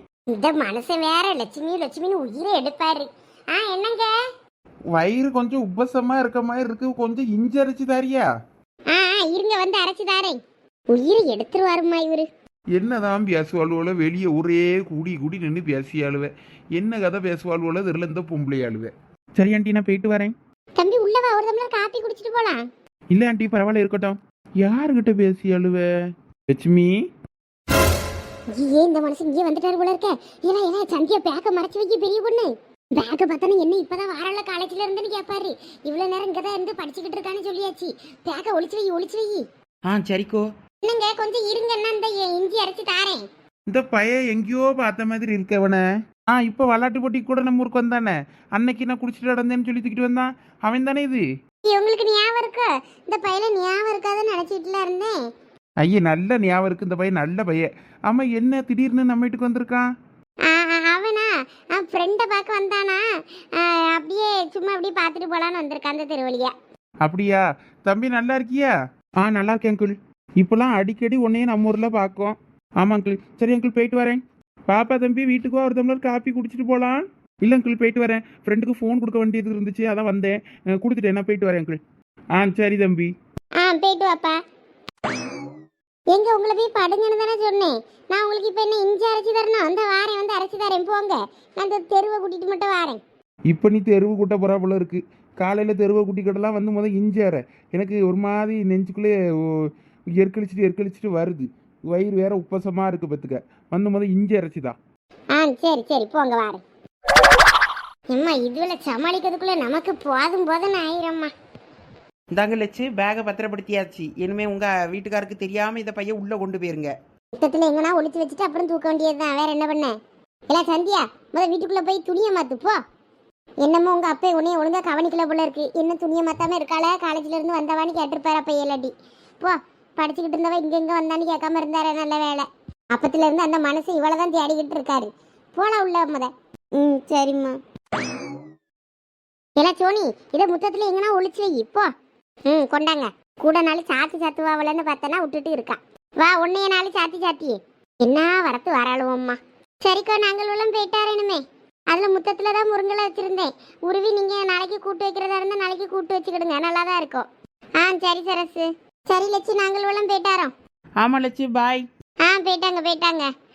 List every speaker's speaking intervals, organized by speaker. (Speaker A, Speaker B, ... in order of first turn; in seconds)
Speaker A: 0.3-4.1, 8.9-10.4, 10.9-12.3, 20.8-22.6, 28.5-39.4, 40.8-43.2, 51.7-55.1, 60.5-63.0, 63.5-66.5, 83.6-84.4, 86.1-93.0, 105.4-106.6, 108.1-111.3, 117.3-119.9, 120.5-122.8, 123.6-137.6, 139.6-141.9, 142.5-157.3, 157.8-160.5, 162.3-163.3
Speaker B: 4.9-8.3, 12.8-20.3, 23.1-25.8, 26.5-27.0, 43.7-45.8, 46.3-51.2, 55.8-59.9, 67.0-81.8, 82.3-83.1, 93.5-99.1, 100.2-104.7
Speaker C: 39.9-40.5, 112.3-116.9, 161.0-161.8